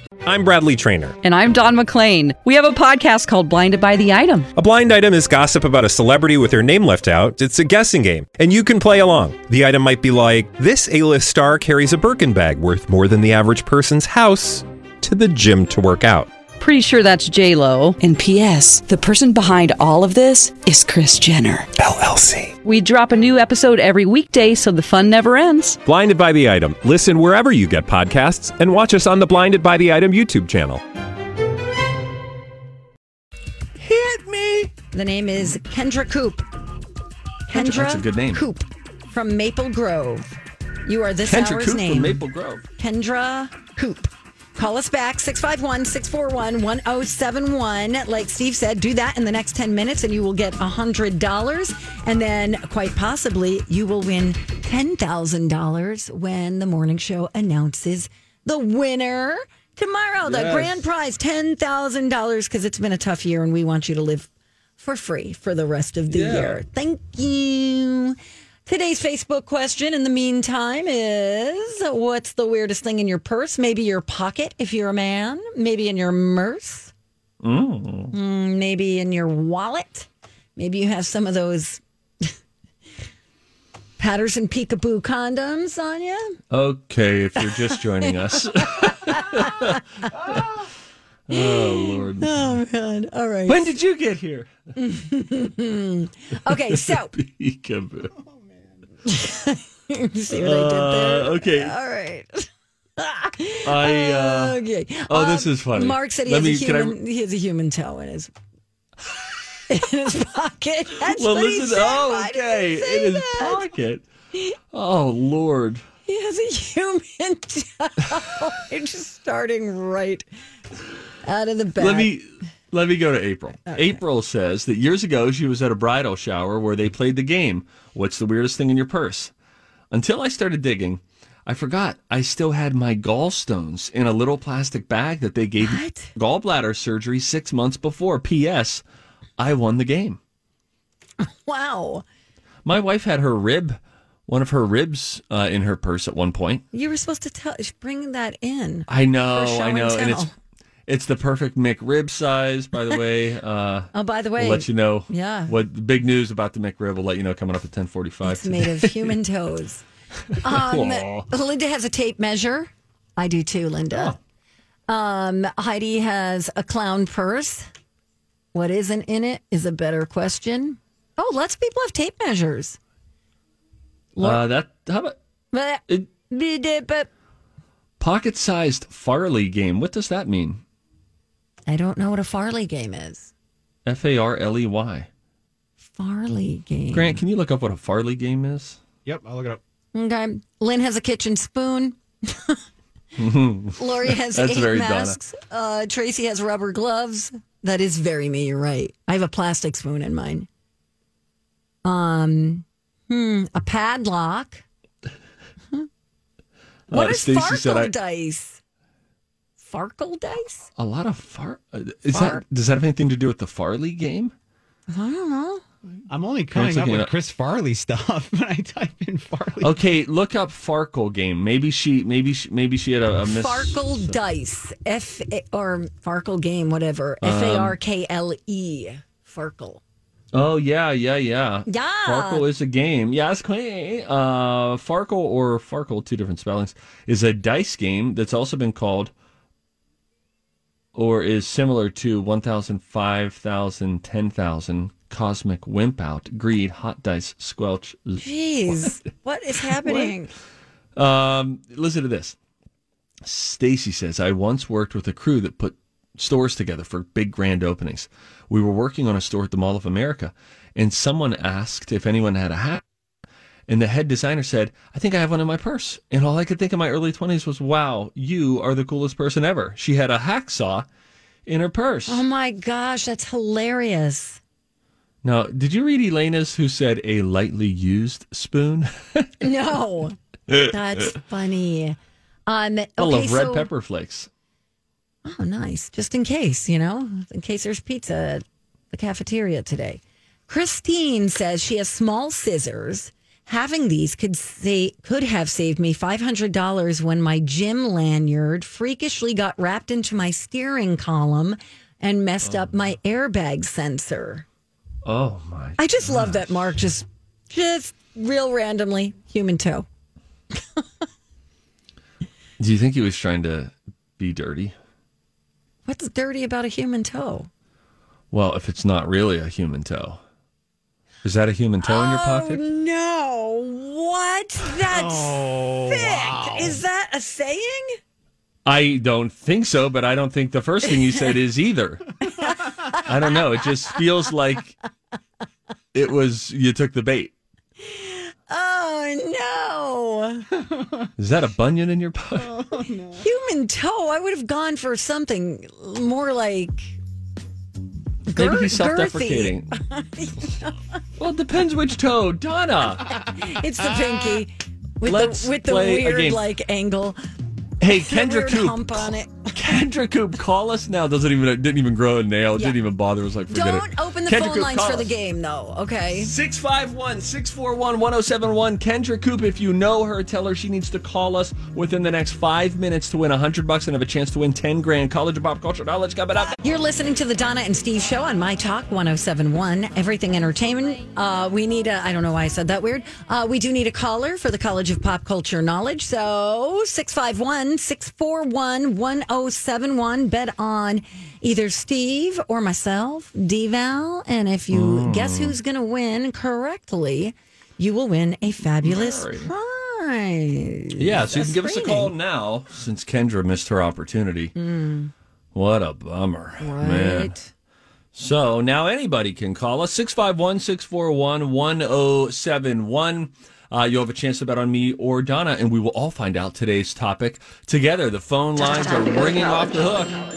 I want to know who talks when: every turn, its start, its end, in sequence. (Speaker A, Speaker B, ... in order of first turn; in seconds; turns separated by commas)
Speaker A: 0.2-1.2, Speaker B: 1.2-4.5, Speaker A: 4.5-16.3, Speaker B: 16.6-21.7, Speaker A: 21.8-22.5, Speaker B: 22.6-25.8, Speaker A: 25.9-30.8, Speaker C: 33.8-34.7, Speaker D: 34.9-36.4, Speaker D: 37.5-40.3, Speaker C: 37.5-38.5, Speaker D: 40.9-42.2, Speaker C: 41.3-42.6, Speaker D: 42.8-76.9, Speaker C: 60.2-60.8, Speaker C: 66.1-66.6, Speaker C: 77.4-78.1, Speaker D: 78.1-82.3, Speaker D: 84.0-86.4, Speaker C: 86.5-90.4, Speaker D: 87.5-88.1, Speaker D: 88.7-89.8, Speaker C: 91.3-92.5, Speaker D: 91.3-93.8, Speaker C: 93.5-94.5, Speaker D: 94.8-97.1, Speaker C: 96.5-98.1, Speaker D: 99.1-102.5, Speaker C: 100.3-101.7, Speaker D: 103.0-108.3, Speaker C: 103.7-107.0, Speaker D: 109.7-113.7, Speaker C: 111.1-114.1, Speaker C: 114.7-115.8, Speaker D: 116.1-120.2, Speaker D: 121.2-122.1, Speaker C: 121.8-129.3, Speaker D: 123.7-124.0, Speaker C: 129.9-138.8, Speaker D: 135.6-136.1, Speaker C: 139.4-140.2, Speaker D: 141.2-142.0, Speaker C: 142.7-146.6, Speaker D: 146.7-150.3, Speaker C: 148.9-150.3, Speaker C: 150.9-159.2, Speaker D: 153.9-155.5, Speaker D: 158.2-159.8, Speaker C: 160.3-161.3, Speaker D: 160.4-164.2, Speaker C: 163.9-164.2, Speaker D: 164.9-167.7, Speaker D: 168.5-172.8, Speaker D: 174.2-174.4, Speaker C: 174.2-175.2, Speaker D: 175.5-177.1, Speaker C: 178.0-180.6, Speaker D: 181.7-183.3, Speaker C: 183.9-185.1, Speaker D: 185.9-187.2, Speaker C: 186.9-188.8, Speaker E: 189.1-189.6, Speaker D: 189.9-192.6, Speaker C: 193.2-195.2, Speaker D: 193.8-200.5, Speaker D: 201.8-204.6, Speaker C: 206.9-207.9, Speaker D: 206.9-208.6, Speaker D: 209.6-210.7, Speaker C: 210.8-214.3, Speaker D: 212.1-212.4, Speaker D: 214.9-215.6, Speaker E: 216.1-219.8, Speaker C: 216.5-217.1, Speaker C: 219.6-224.2, Speaker D: 223.3-229.8, Speaker C: 227.2-227.8, Speaker C: 230.3-239.1, Speaker D: 231.7-232.4, Speaker C: 240.9-249.0, Speaker D: 248.2-250.3, Speaker C: 249.8-250.2, Speaker C: 251.0-252.3, Speaker C: 253.2-262.8, Speaker C: 263.7-270.9, Speaker C: 271.5-272.2, Speaker D: 272.1-274.4, Speaker C: 275.2-279.3, Speaker D: 279.4-283.7, Speaker C: 280.5-281.0, Speaker C: 283.0-284.3, Speaker D: 285.2-304.4, Speaker C: 302.4-302.7, Speaker C: 305.1-306.6, Speaker D: 305.8-309.9, Speaker C: 312.6-314.7, Speaker D: 315.9-317.5, Speaker C: 318.3-320.2, Speaker C: 321.2-322.6, Speaker D: 321.8-328.0, Speaker E: 324.8-326.8, Speaker C: 328.7-332.1, Speaker D: 332.4-333.4, Speaker C: 333.0-334.7, Speaker C: 335.9-337.3, Speaker D: 337.8-340.5, Speaker E: 340.6-341.1, Speaker C: 341.2-342.5, Speaker E: 342.4-343.2, Speaker D: 343.2-347.0, Speaker D: 348.3-350.8, Speaker C: 348.4-349.7, Speaker C: 351.2-353.1, Speaker D: 353.4-357.2, Speaker C: 355.0-356.4, Speaker C: 357.8-365.1, Speaker D: 358.0-359.5, Speaker D: 363.5-366.3, Speaker C: 366.2-376.6, Speaker D: 376.6-402.1, Speaker C: 394.7-395.6, Speaker C: 398.8-399.5, Speaker C: 401.0-404.5, Speaker D: 404.6-405.1, Speaker C: 405.5-407.3, Speaker D: 406.6-407.5, Speaker C: 408.1-420.1